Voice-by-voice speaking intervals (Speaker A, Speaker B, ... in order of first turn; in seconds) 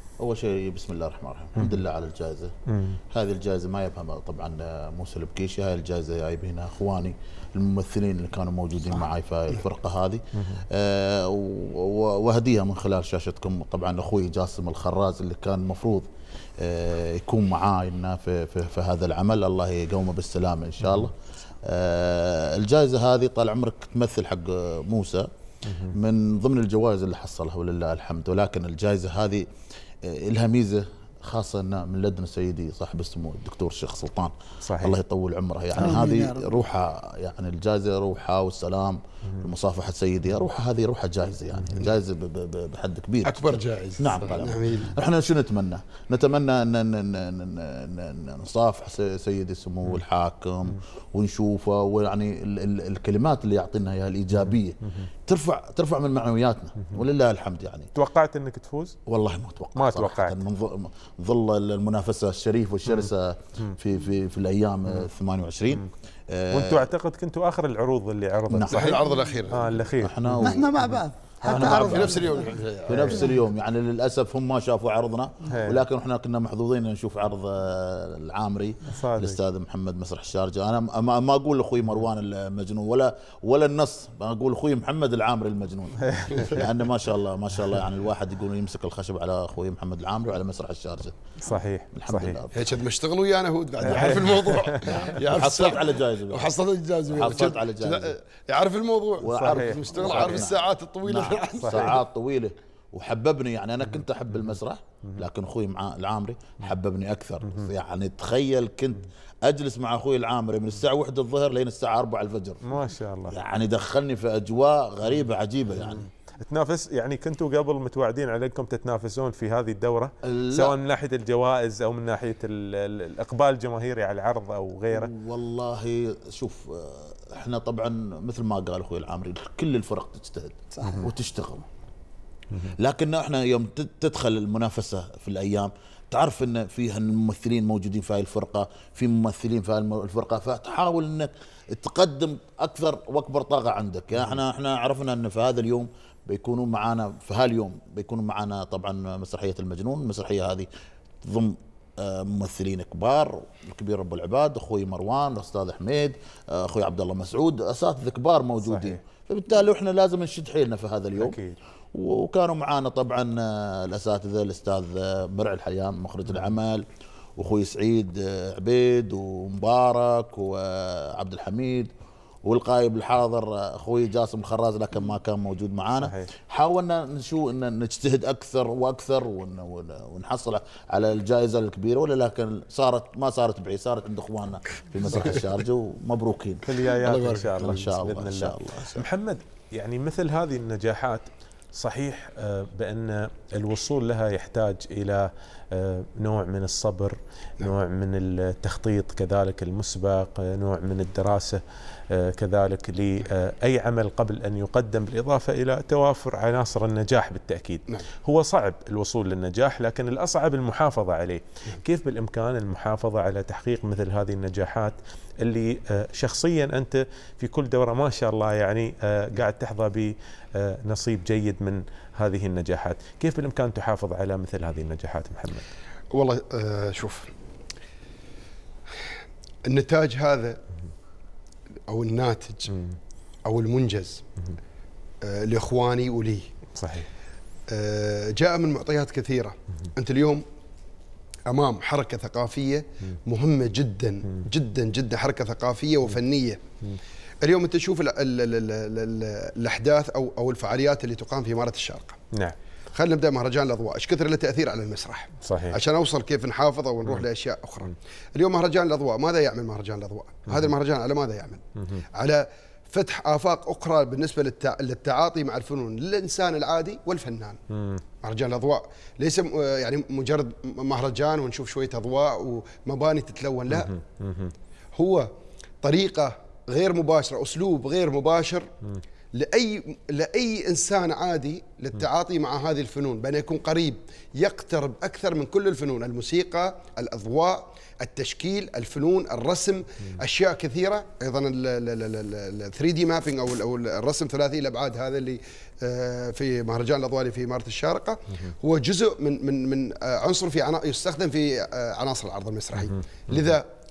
Speaker A: 0.2-2.5, 3.1-16.1, 16.6-25.3, 25.9-29.4, 30.0-57.9, 59.1-66.9, 68.5-69.0, 70.0-70.7, 71.8-72.2, 72.8-91.2, 91.9-92.7, 93.8-96.5, 97.1-98.2, 99.2-112.8, 113.3-116.1, 120.2-120.8, 124.9-131.7, 132.8-150.7, 151.2-161.4, 161.9-166.8, 167.4-171.9, 172.4-186.8, 187.5-189.1
Speaker B: 2.7-3.0, 10.4-10.6, 20.8-21.1, 25.6-25.9, 34.6-35.0, 58.0-59.0, 59.8-60.4, 66.5-70.9, 71.5-72.2, 75.5-75.8, 78.9-79.4, 86.0-86.7, 91.4-92.4, 93.8-95.1, 99.3-100.5, 101.6-102.0, 107.4-107.7, 112.6-113.4, 115.8-125.1, 158.7-159.0, 161.2-161.6, 176.0-176.3, 186.7-225.7, 232.7-233.0, 236.8-237.1, 255.4-255.8, 261.8-262.0, 267.7-268.0, 273.7-274.5, 302.7-303.6
Speaker C: 35.8-36.6, 70.4-72.6, 130.8-131.0
Speaker D: 43.2-44.9, 68.6-69.7, 71.5-73.3, 92.5-102.0, 187.0-187.4, 226.1-227.3, 229.7-230.6, 231.9-232.7, 233.4-234.2, 235.2-236.5, 237.7-240.4, 241.5-246.6, 247.4-252.2, 252.9-261.6, 262.1-267.6, 268.2-273.9, 274.9-275.3, 275.8-278.7, 279.3-303.7